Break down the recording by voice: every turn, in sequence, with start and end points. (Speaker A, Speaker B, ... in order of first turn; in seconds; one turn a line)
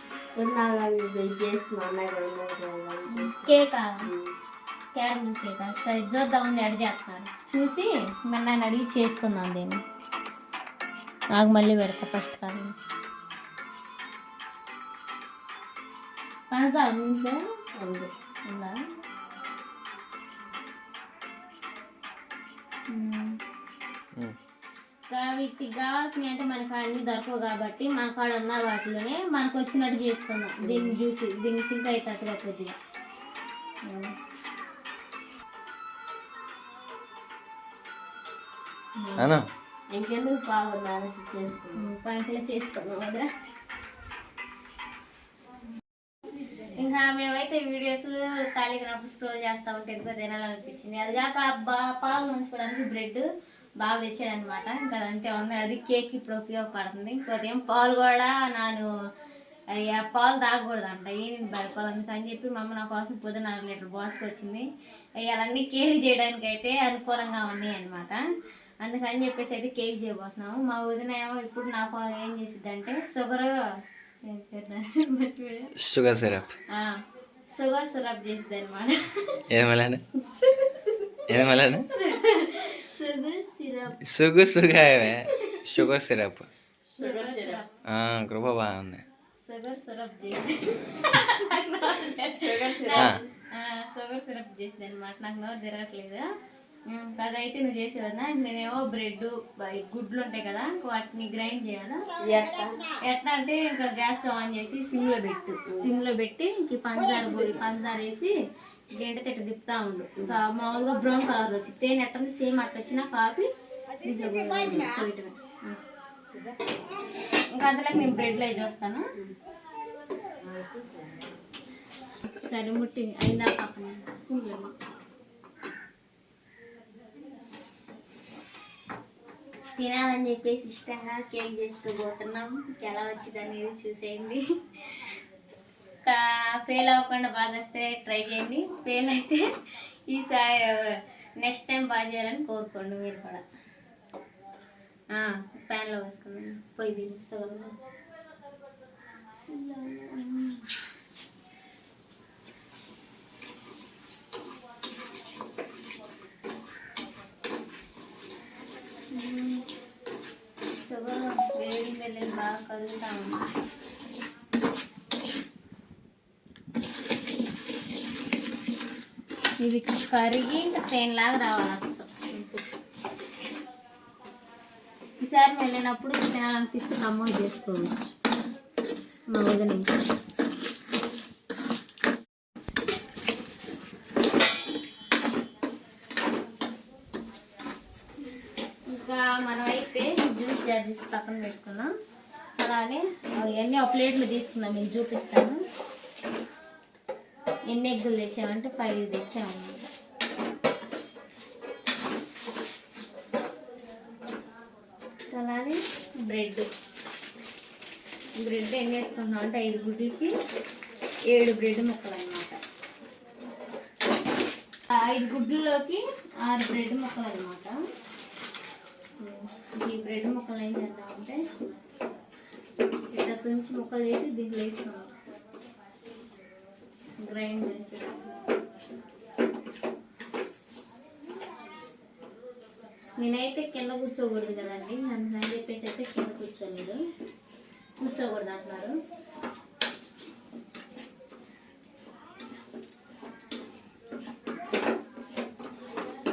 Speaker A: 0.3-4.3
Speaker B: 3.1-4.0
Speaker B: 4.9-9.8
Speaker B: 11.3-12.7
Speaker B: 16.5-17.4
Speaker A: 17.7-18.1
Speaker B: 18.5-18.8
Speaker B: 22.9-23.4
Speaker B: 25.1-32.7
Speaker A: 30.6-31.0
Speaker B: 33.8-34.1
Speaker B: 39.0-39.3
Speaker C: 39.2-39.4
Speaker A: 39.9-41.9
Speaker B: 41.8-43.3
Speaker B: 46.7-53.2
Speaker B: 53.8-58.9
Speaker B: 59.8-64.7
Speaker B: 65.2-68.2
Speaker B: 68.8-73.5
Speaker B: 74.2-75.7
Speaker C: 75.8-76.5
Speaker B: 77.5-79.4
Speaker C: 79.5-80.0
Speaker B: 80.2-84.0
Speaker C: 81.3-81.9
Speaker C: 84.0-86.5
Speaker B: 85.0-85.8
Speaker A: 86.9-87.6
Speaker B: 87.0-87.7
Speaker C: 87.8-89.0
Speaker B: 89.4-96.2
Speaker A: 92.4-93.2
Speaker B: 96.9-102.0
Speaker A: 102.2-102.8
Speaker B: 103.0-108.3
Speaker B: 109.0-113.5
Speaker B: 114.0-115.8
Speaker A: 116.3-116.6
Speaker B: 117.5-119.0
Speaker A: 120.4-121.3
Speaker B: 122.2-124.7
Speaker B: 129.8-134.4
Speaker B: 136.1-139.4
Speaker B: 140.1-143.4
Speaker B: 145.1-147.8
Speaker B: 149.4-150.7
Speaker B: 159.1-159.7
Speaker B: 160.7-163.5
Speaker B: 169.6-172.7
Speaker B: 175.2-178.1
Speaker B: 179.3-179.9
Speaker B: 188.9-191.9
Speaker B: 192.6-195.6
Speaker B: 197.7-199.8
Speaker B: 205.3-206.7
Speaker B: 208.3-210.3
Speaker B: 211.3-212.6
Speaker B: 214.9-217.8
Speaker B: 219.2-221.4
Speaker B: 223.1-225.1
Speaker B: 227.2-228.4
Speaker B: 233.2-237.0
Speaker B: 238.0-238.9